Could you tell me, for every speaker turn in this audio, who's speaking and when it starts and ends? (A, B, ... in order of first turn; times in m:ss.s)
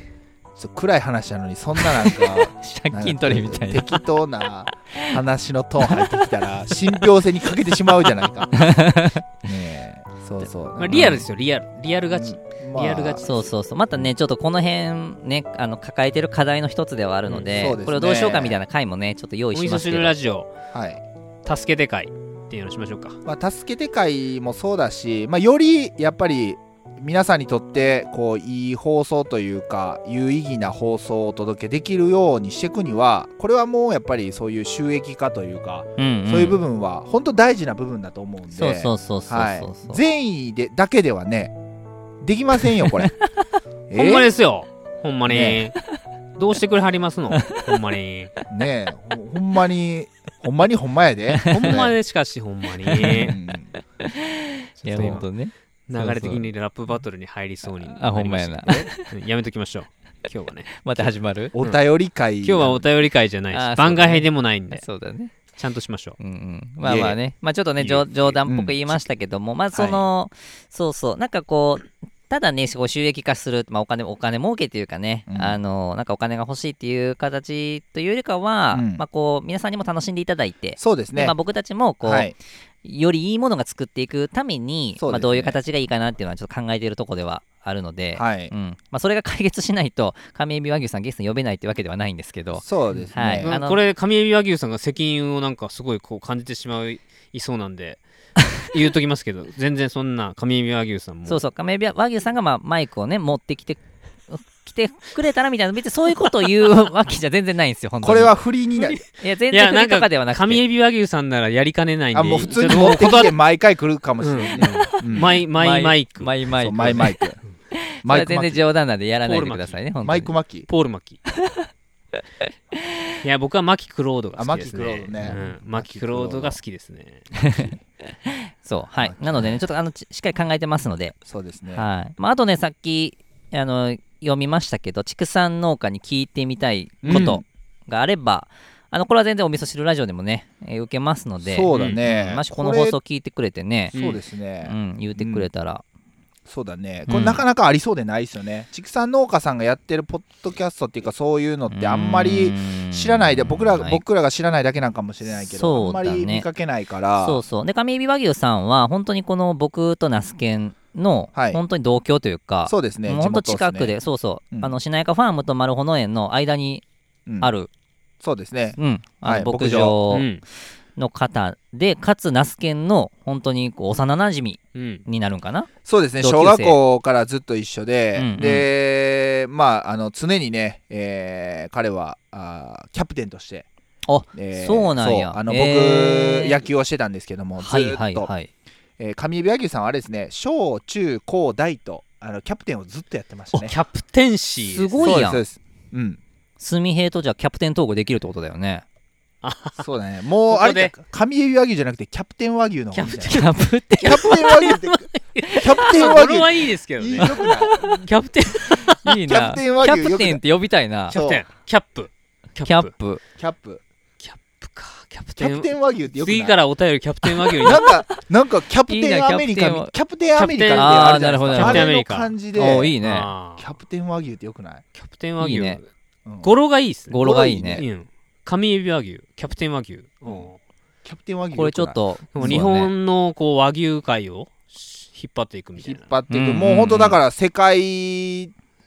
0:00.6-0:08.6 A
0:01.9-0:04.0 B
0:04.9-0:05.2 B
0:05.8-0:06.7 B
0:08.5-0:09.3 B
0:09.4-0:11.3 A
0:10.8-0:13.3 C
0:12.1-0:13.5 A
0:13.2-0:20.1 B
0:17.5-0:18.6 A
0:19.5-0:20.5 C
0:20.7-0:21.0 A
0:21.4-0:23.2 C
0:23.2-0:41.5 A
0:36.0-0:36.6 B
0:38.5-0:40.0 B
0:42.2-0:43.1 A
0:43.9-0:44.3 A
0:43.9-0:45.8 C
0:45.3-0:45.6 A
0:46.4-0:48.3 C
0:48.5-0:51.9 A
0:51.3-0:51.8 B
0:51.5-0:53.4 C
0:52.8-0:53.4 B
0:53.2-0:53.7 A
0:54.0-0:56.4 B
0:54.8-0:55.3 C
0:55.9-1:01.8 C
0:57.8-0:59.1 B
1:00.7-1:01.5 B
1:01.5-1:02.9 A
1:02.4-1:04.9 C
1:03.5-1:05.3 B
1:05.5-1:06.2 C
1:06.2-1:33.8 B
1:06.8-1:07.2 A
1:07.8-1:08.3 C
1:08.4-1:08.8 A
1:09.7-1:10.1 A
1:15.3-1:15.6 A
1:18.7-1:19.0 A
1:20.8-1:21.3 A
1:22.0-1:22.3 A
1:25.0-1:25.6 A
1:28.1-1:28.5 A
1:32.6-1:33.5 A
1:32.9-1:38.0 C
1:38.6-1:41.4 C
1:41.3-1:48.3 B
1:48.0-1:49.0 A
1:48.8-1:53.3 C
1:49.2-1:50.6 B
1:52.1-1:55.4 A
1:54.2-1:57.0 C
1:55.2-1:57.2 B
1:56.6-1:57.4 A
1:57.7-2:00.3 B
1:58.0-1:58.6 A
1:59.2-1:59.8 C
2:00.0-2:00.7 A
2:00.7-2:01.2 C
2:01.4-2:01.7 B
2:03.2-2:07.3 C
2:04.4-2:06.6 A
2:07.4-2:11.2 B
2:09.0-2:09.6 A
2:11.2-2:11.8 A
2:11.7-2:24.0 B
2:17.0-2:17.4 A
2:21.4-2:23.0 A
2:23.9-2:25.5 A
2:23.9-2:24.2 C
2:24.6-2:25.8 B
2:26.4-2:37.4 A
2:27.1-2:27.4 B
2:31.7-2:34.0 B
2:35.3-2:36.5 B
2:37.2-2:46.8 B
2:41.3-2:41.6 A
2:42.7-2:43.9 A
2:47.4-2:47.7 B
2:48.2-2:50.0 A
2:48.8-2:50.3 B
2:50.1-2:50.4 C
2:51.0-2:56.8 B
2:54.7-2:55.0 C
2:55.8-3:03.7 A
2:58.2-2:58.7 B
3:04.0-3:06.6 B
3:04.3-3:08.3 A
3:07.6-3:08.5 B
3:09.0-3:13.8 A
3:13.5-3:15.2 C
3:14.6-3:15.4 B
3:15.0-3:16.2 A
3:16.6-3:18.8 B
3:19.4-3:19.9 C
3:19.8-3:23.4 A
3:20.5-3:21.0 C
3:22.9-3:29.1 C
3:23.3-3:24.4 B
3:24.0-3:28.0 A
3:27.4-3:28.0 B
3:29.0-3:31.2 B
3:29.2-3:30.4 A
3:31.1-3:32.9 C
3:31.1-3:31.4 A
3:32.6-3:33.2 B
3:33.4-3:33.8 A
3:34.2-3:37.9 C
3:35.4-3:36.6 A
3:37.6-3:43.0 A
3:38.9-3:39.9 B
3:40.3-3:42.3 C
3:40.7-3:41.9 B
3:42.5-3:43.3 B
3:43.0-3:43.7 C
3:43.6-3:44.8 A
3:44.9-3:45.9 C
3:45.4-3:45.8 B
3:46.2-3:46.5 A
3:46.4-3:50.6 C
3:47.1-3:47.8 B
3:47.2-3:47.8 A
3:51.0-3:52.7 A
3:51.5-3:52.9 B
3:52.3-3:56.1 C
3:55.8-3:58.5 A
3:56.3-3:57.2 B